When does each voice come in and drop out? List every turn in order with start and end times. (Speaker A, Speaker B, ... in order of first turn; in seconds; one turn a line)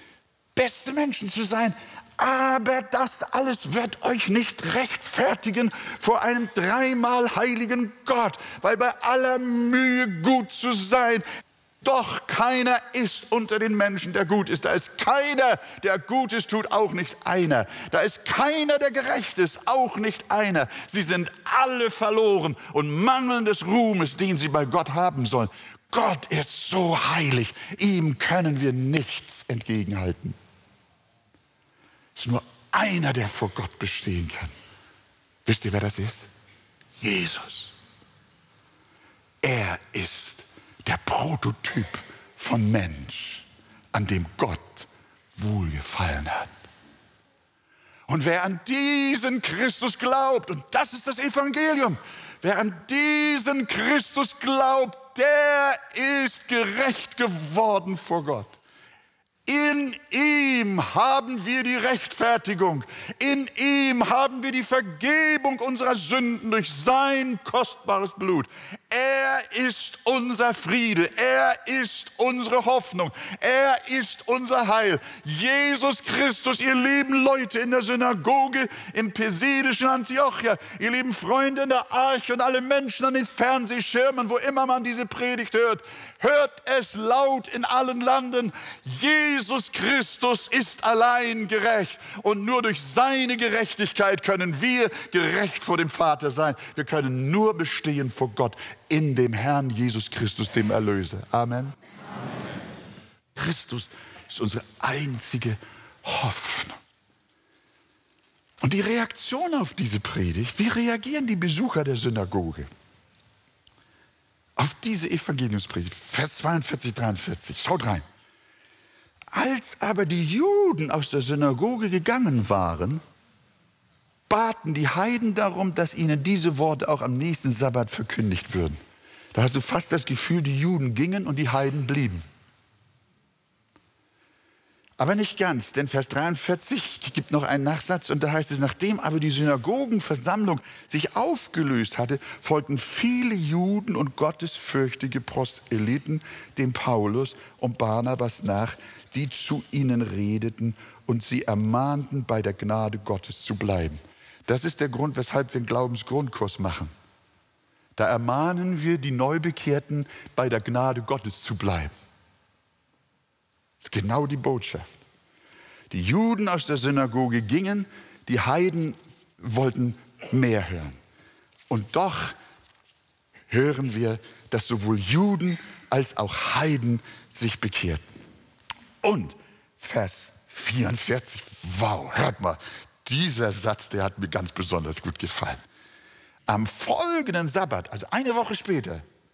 Speaker A: 0.5-11.2
Speaker A: 11.8-30.4
Speaker A: 32.1-34.5
Speaker A: 35.5-36.3
Speaker A: 37.0-37.7
Speaker A: 39.4-46.5
Speaker A: 48.1-58.6
Speaker A: 59.5-101.7
Speaker A: 103.3-106.8
Speaker A: 108.6-112.7
Speaker A: 114.5-118.0
Speaker A: 119.3-123.0
Speaker A: 124.3-128.8
Speaker A: 129.3-132.2
Speaker A: 135.0-156.9
Speaker A: 157.9-161.9
Speaker A: 163.8-164.9
Speaker A: 165.9-171.0
Speaker A: 171.7-172.4
Speaker A: 173.5-178.1
Speaker A: 179.0-185.6
Speaker A: 186.5-189.0